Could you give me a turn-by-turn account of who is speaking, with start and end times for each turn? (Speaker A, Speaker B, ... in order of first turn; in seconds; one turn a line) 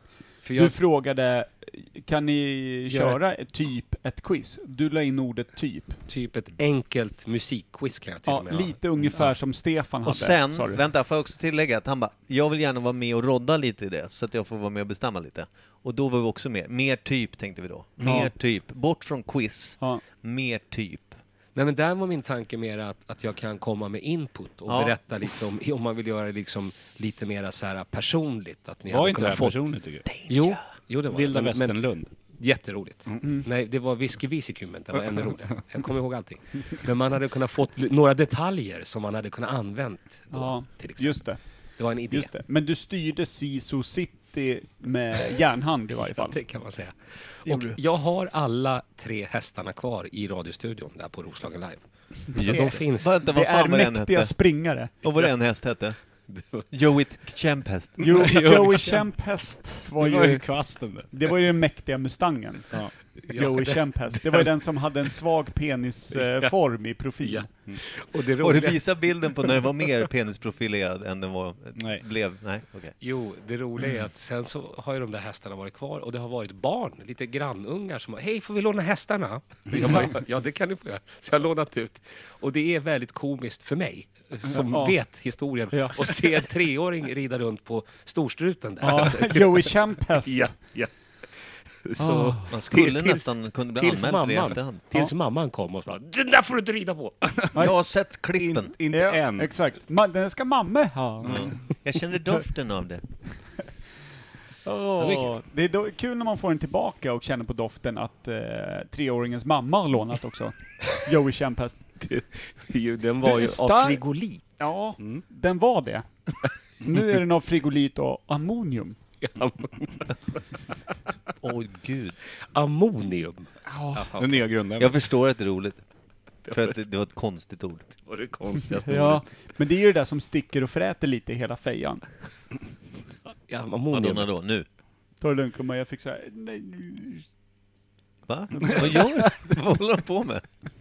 Speaker A: 0.4-0.7
Speaker B: 0.5-6.0
Speaker A: 2.9-3.2
Speaker A: 6.1-8.8
Speaker B: 8.3-10.8
Speaker C: 10.0-21.2
Speaker B: 18.0-18.3
Speaker A: 21.5-41.2
Speaker C: 24.7-24.9
Speaker D: 28.9-30.1
Speaker C: 30.1-30.6
Speaker D: 31.1-32.1
Speaker B: 40.3-41.4
Speaker A: 41.8-42.3
Speaker B: 42.1-46.4
Speaker A: 46.1-53.1
Speaker C: 47.5-47.8
Speaker B: 52.3-54.9
Speaker C: 52.3-54.3
Speaker C: 55.0-56.0
Speaker A: 56.3-56.6
Speaker C: 56.7-58.3
Speaker B: 58.0-67.5
Speaker D: 58.1-59.0
Speaker D: 59.9-61.1
Speaker A: 63.3-63.9
Speaker A: 67.2-69.0
Speaker C: 68.4-72.9
Speaker D: 71.8-72.0
Speaker A: 73.0-90.9
Speaker B: 84.6-85.0
Speaker B: 85.7-86.0
Speaker B: 88.8-90.6
Speaker A: 91.8-97.5
Speaker B: 92.0-92.5
Speaker C: 92.5-94.8
Speaker C: 97.5-98.7
Speaker D: 98.4-99.5
Speaker B: 98.9-101.7
Speaker C: 101.2-103.0
Speaker B: 104.6-111.8
Speaker D: 105.0-105.3
Speaker A: 112.0-114.7
Speaker B: 113.2-114.0
Speaker B: 114.6-116.1
Speaker B: 116.8-119.0
Speaker A: 119.2-120.1
Speaker C: 121.4-122.2
Speaker A: 122.5-124.3
Speaker B: 123.7-124.1
Speaker D: 124.2-125.0
Speaker C: 124.8-125.8
Speaker A: 126.5-126.8
Speaker C: 126.5-127.9
Speaker A: 128.0-129.2
Speaker B: 128.8-132.1
Speaker A: 133.5-134.3
Speaker C: 133.9-134.7
Speaker B: 135.2-137.2
Speaker C: 138.3-140.4
Speaker D: 138.7-139.2